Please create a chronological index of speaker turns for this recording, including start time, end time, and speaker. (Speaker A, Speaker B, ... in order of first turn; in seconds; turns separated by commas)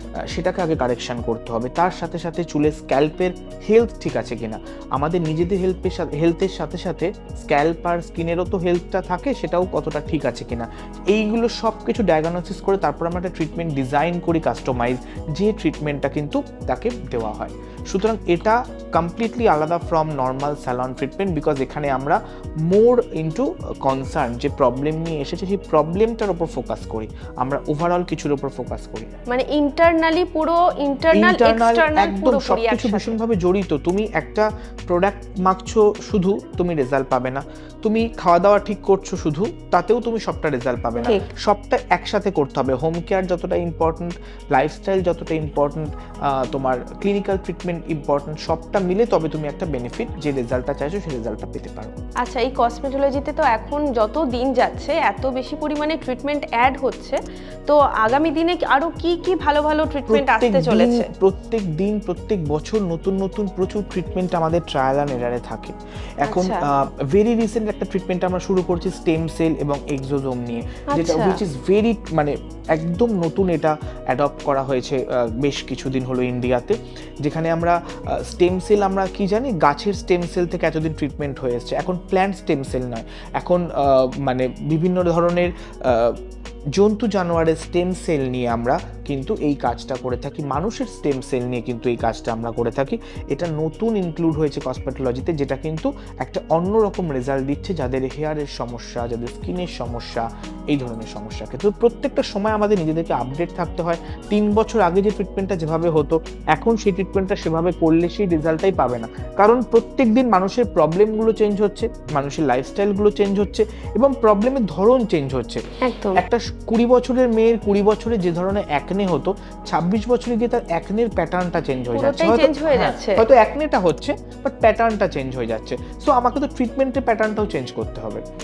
Speaker A: 0.3-29.1, Speaker B: 29.3-33.1, Speaker A: 31.1-51.9, Speaker B: 41.0-41.3, Speaker B: 52.2-61.1, Speaker A: 60.1-86.2, Speaker B: 66.2-66.6, Speaker B: 70.9-71.4, Speaker A: 86.7-115.6, Speaker B: 115.8-116.2, Speaker A: 116.1-128.2, Speaker B: 121.9-123.2